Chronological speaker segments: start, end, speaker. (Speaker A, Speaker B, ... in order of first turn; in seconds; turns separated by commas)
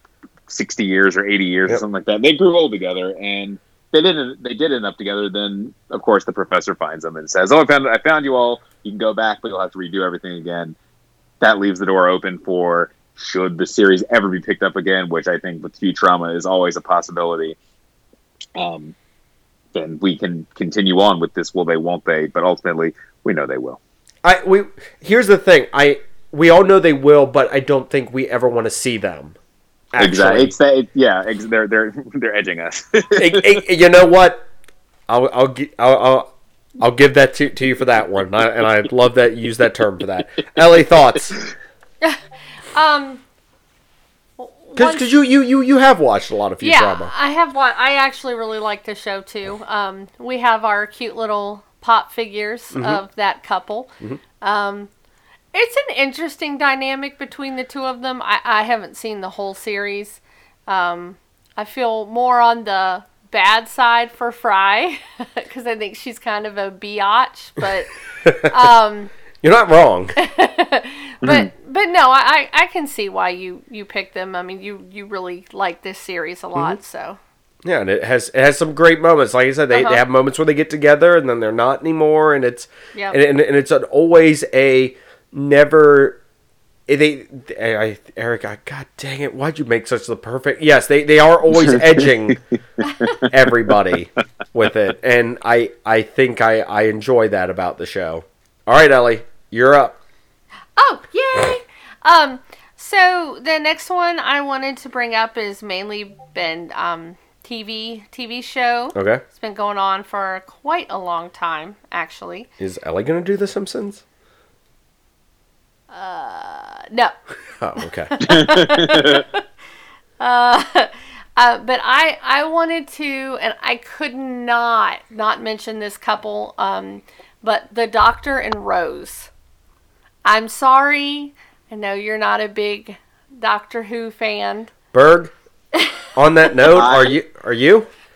Speaker A: 0.5-10.8, Speaker A: 11.4-17.6, Speaker A: 18.6-18.9, Speaker A: 19.7-23.8, Speaker B: 24.2-29.4, Speaker B: 29.9-30.5, Speaker A: 30.0-33.6, Speaker B: 33.2-34.5, Speaker B: 35.1-36.3, Speaker B: 36.8-41.4, Speaker C: 42.7-43.2, Speaker C: 44.4-45.1, Speaker B: 44.8-47.1, Speaker C: 46.6-54.9, Speaker B: 52.7-53.0, Speaker C: 55.5-69.1, Speaker B: 68.2-68.7, Speaker B: 69.4-70.2, Speaker C: 70.2-77.2, Speaker A: 71.2-71.5, Speaker B: 77.6-86.2, Speaker C: 79.7-80.0, Speaker C: 82.9-83.2, Speaker B: 86.9-92.4, Speaker A: 91.5-92.1, Speaker C: 92.8-93.1, Speaker A: 92.8-93.3, Speaker B: 93.2-100.0, Speaker C: 100.8-112.5, Speaker B: 109.0-109.2, Speaker B: 112.6-114.0, Speaker C: 115.9-117.2, Speaker B: 117.6-118.1, Speaker C: 118.1-119.4, Speaker A: 118.2-119.2, Speaker C: 120.2-129.3, Speaker C: 130.2-134.7, Speaker B: 134.9-135.3, Speaker B: 136.2-137.9, Speaker A: 136.7-137.2